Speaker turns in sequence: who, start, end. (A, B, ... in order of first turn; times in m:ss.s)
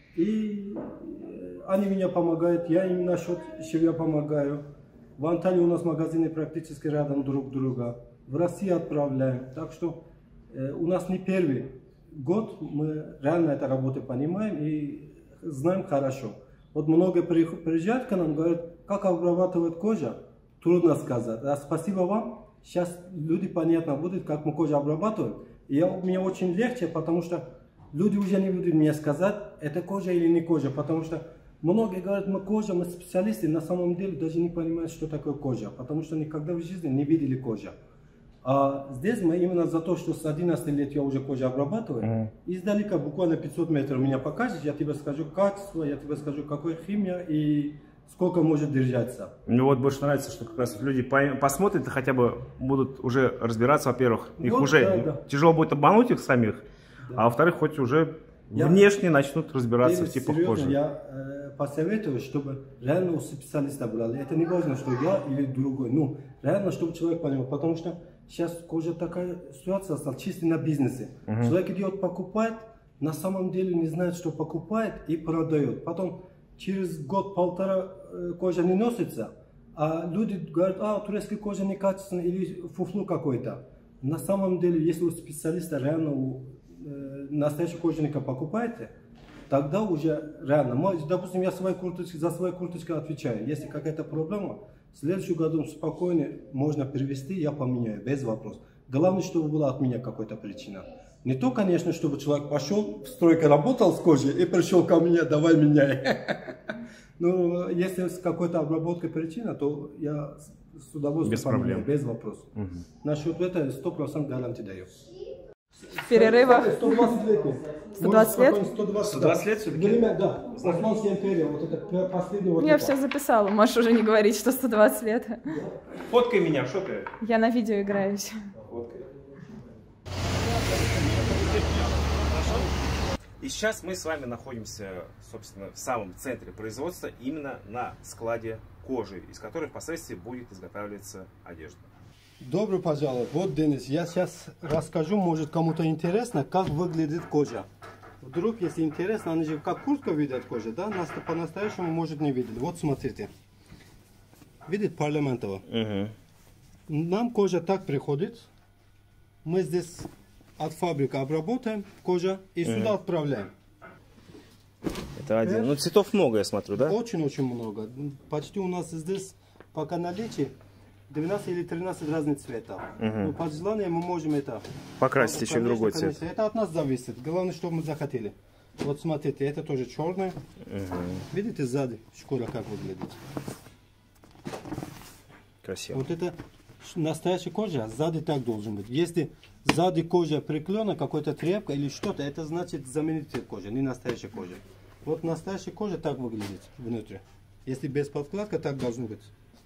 0:00.1-0:37.8 A
0:38.4-0:49.3 A
0:42.0-0:42.3 B
0:49.5-1:00.8 B
0:54.4-0:55.2 A
0:58.5-0:58.9 A
0:59.8-1:28.9 A
1:11.3-1:11.5 B
1:29.5-1:54.9 A
1:51.2-1:51.9 B
1:52.6-1:52.8 B
1:55.9-2:03.0 A
1:56.1-1:57.2 C
1:58.0-1:58.7 C
1:59.0-2:00.8 B
2:02.6-2:05.5 C
2:05.5-2:05.7 A
2:06.1-2:07.1 B
2:07.2-2:08.4 C
2:08.7-2:09.0 B
2:10.9-2:12.7 B
2:13.4-2:21.9 B
2:22.4-2:27.7 A
2:28.2-2:33.3 A
2:34.6-2:35.6 A
2:35.7-2:36.1 B
2:36.9-2:38.5 A
2:39.4-2:43.5 A
2:42.6-2:42.9 B
2:45.2-2:47.0 B
2:45.4-2:45.8 A
2:46.8-2:50.5 A
2:51.1-3:00.4 A
2:53.0-2:53.3 B
2:55.0-2:56.2 B
3:00.7-3:01.2 B
3:01.3-3:03.2 A
3:05.6-3:06.0 B
3:05.9-3:19.3 A